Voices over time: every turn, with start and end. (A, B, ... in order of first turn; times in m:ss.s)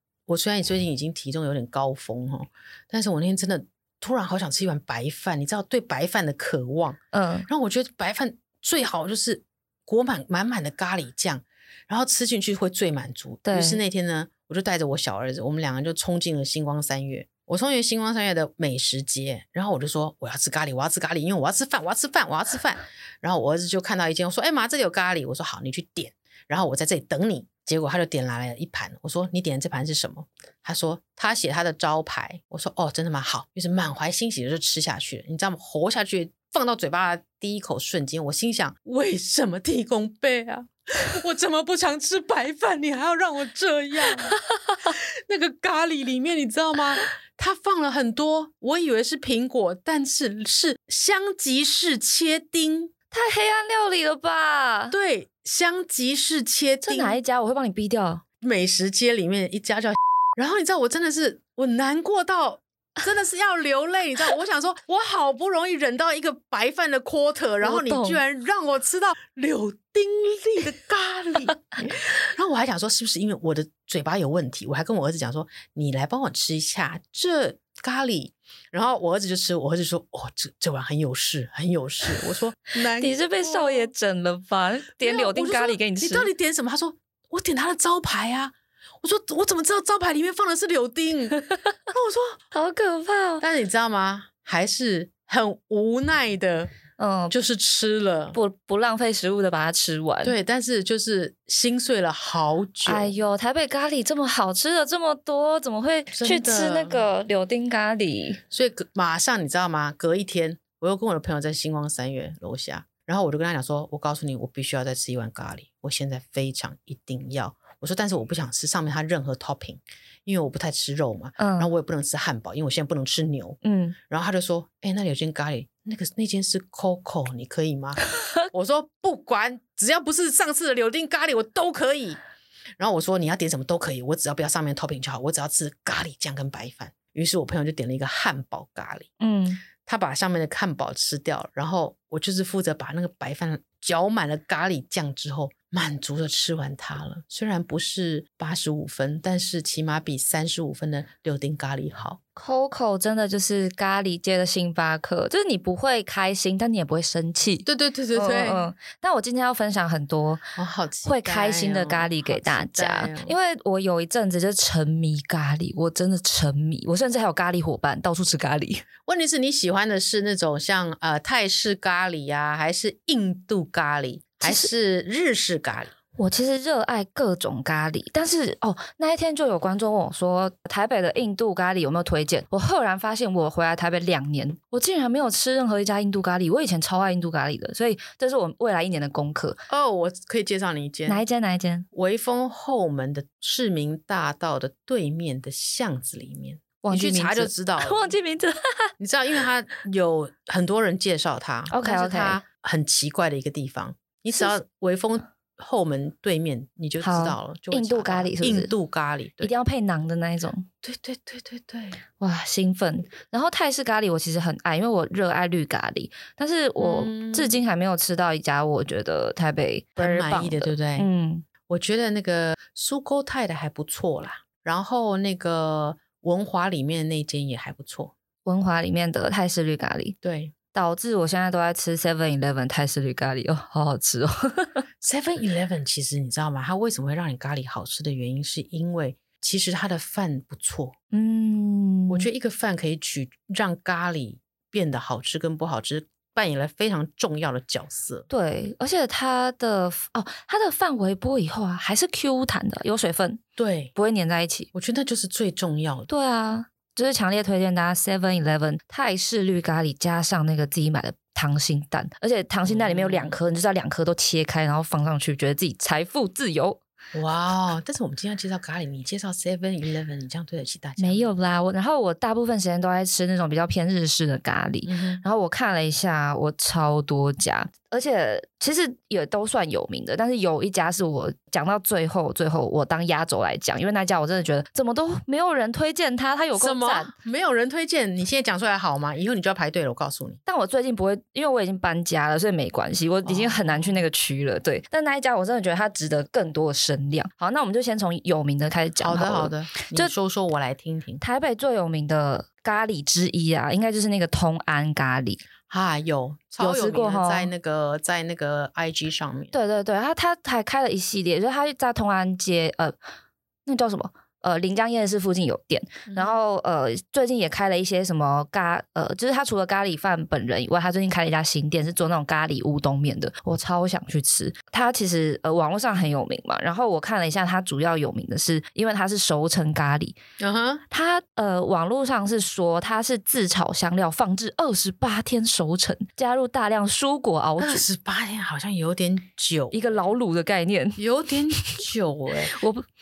0:00.3-0:52.9 A
0:07.1-0:07.5 B
0:13.4-0:13.8 B
0:53.1-0:55.0 B
0:54.9-0:57.2 A
0:56.8-0:58.2 B
0:58.4-1:23.9 A
1:07.6-1:08.2 B
1:23.0-1:26.3 B
1:25.0-1:32.4 A
1:32.5-1:33.4 B
1:33.4-1:36.7 A
1:37.0-1:37.4 B
1:37.3-1:38.4 A
1:38.3-1:40.4 B
1:40.2-1:43.2 A
1:42.8-1:48.4 B
1:46.1-1:47.1 A
1:48.5-2:12.2 A
2:01.4-2:01.7 B
2:03.6-2:04.0 B
2:08.2-2:08.4 B
2:12.8-2:19.1 A
2:19.2-2:19.6 B
2:19.8-2:32.2 A
2:32.4-2:40.4 B
2:37.7-2:38.7 A
2:40.6-2:43.4 A
2:41.0-2:48.8 B
2:49.1-2:55.9 A
2:54.4-2:54.7 B
2:56.2-3:09.6 B
3:09.7-3:11.2 A
3:11.1-3:11.9 B
3:11.9-3:18.0 A
3:16.8-3:18.9 B
3:19.0-3:29.5 A
3:21.7-3:22.4 B
3:27.0-3:28.7 B
3:29.4-3:30.7 B
3:30.8-3:32.0 A
3:32.2-3:41.5 B
3:36.8-3:37.6 A
3:40.0-3:41.1 A
3:41.7-3:48.1 A
3:48.4-3:50.2 B
3:50.2-3:50.5 A
3:50.7-3:54.8 B
3:55.0-4:00.9 A
4:01.1-4:02.3 B
4:02.1-4:08.3 A
4:08.3-4:13.4 B
4:13.6-4:13.9 A
4:13.9-4:14.7 B
4:14.7-4:16.1 A
4:16.1-4:26.8 B
4:22.6-4:23.4 A
4:27.1-4:31.3 A
4:31.0-4:47.1 B
4:34.9-4:35.2 A
4:46.6-4:50.4 A
4:50.5-5:00.1 B
4:53.2-4:54.0 A
4:59.0-5:01.2 A
5:01.2-5:05.4 B
5:05.7-5:09.5 A
5:06.6-5:07.5 B
5:09.5-5:13.0 B
5:13.7-5:30.2 B
5:16.1-5:16.4 A
5:30.4-5:30.8 A
5:30.9-5:37.8 B
5:37.6-5:40.1 A
5:39.7-5:41.0 B
5:41.0-5:42.6 A
5:41.6-5:41.8 B
5:42.5-5:42.9 B